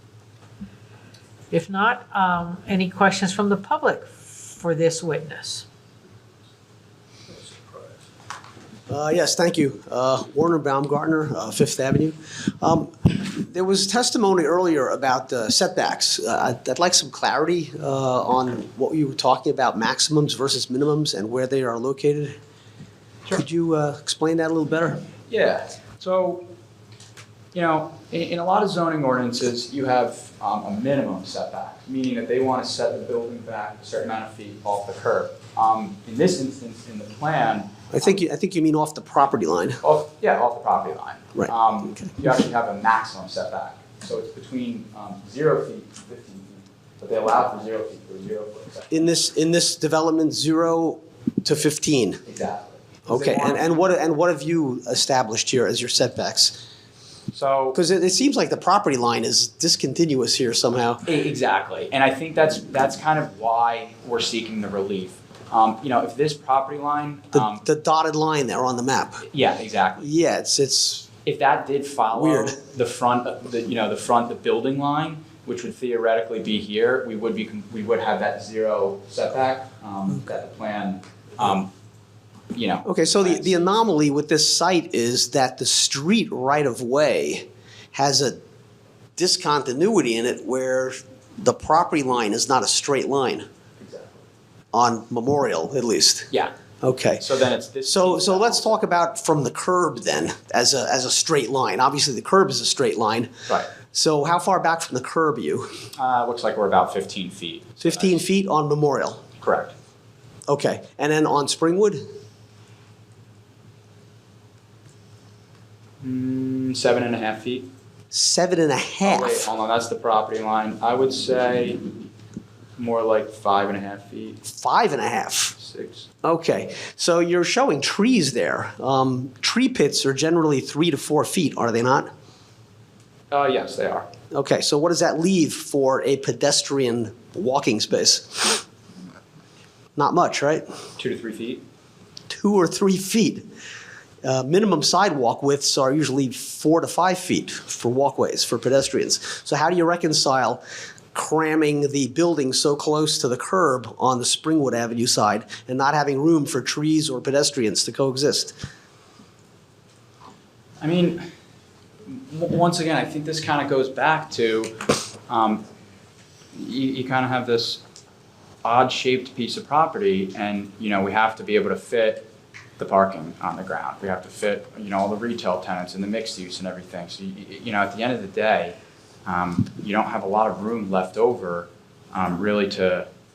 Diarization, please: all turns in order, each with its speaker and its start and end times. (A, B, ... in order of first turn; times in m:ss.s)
0:01.5-0:05.6 A
0:08.9-0:22.3 B
0:23.3-0:25.0 B
0:25.3-0:26.4 C
0:27.5-0:38.1 C
0:37.9-0:39.8 B
0:39.8-0:48.9 C
0:48.9-0:52.2 B
0:52.2-0:53.8 C
0:53.1-0:56.6 B
0:57.3-0:57.8 C
0:57.7-1:01.0 B
1:01.0-1:07.6 C
1:07.3-1:09.2 B
1:09.3-1:10.1 C
1:10.0-1:11.1 B
1:11.2-1:21.7 C
1:12.1-1:12.6 B
1:22.5-1:23.6 C
1:22.8-1:28.4 B
1:29.2-1:33.4 B
1:33.8-1:34.2 C
1:34.7-1:36.3 B
1:36.8-1:37.2 B
1:37.1-1:38.7 C
1:37.8-1:43.3 B
1:43.5-1:43.7 C
1:43.9-1:45.7 B
1:46.0-1:48.2 C
1:47.8-1:49.2 B
1:49.4-1:49.7 C
1:50.5-1:52.0 B
1:56.0-1:57.7 C
1:58.1-1:59.5 B
1:59.0-2:01.8 C
2:02.8-2:04.4 C
2:04.4-2:05.5 B
2:05.6-2:06.1 C
2:06.2-2:12.1 B
2:13.3-2:14.1 C
2:14.3-2:18.6 B
2:20.0-2:20.6 B
2:21.0-2:21.6 C
2:22.3-2:23.4 B
2:24.2-2:30.6 B
2:31.1-2:38.6 B
2:40.8-2:41.2 C
2:42.0-2:45.6 C
2:46.5-2:47.8 C
2:48.6-2:52.3 C
2:52.8-3:03.1 C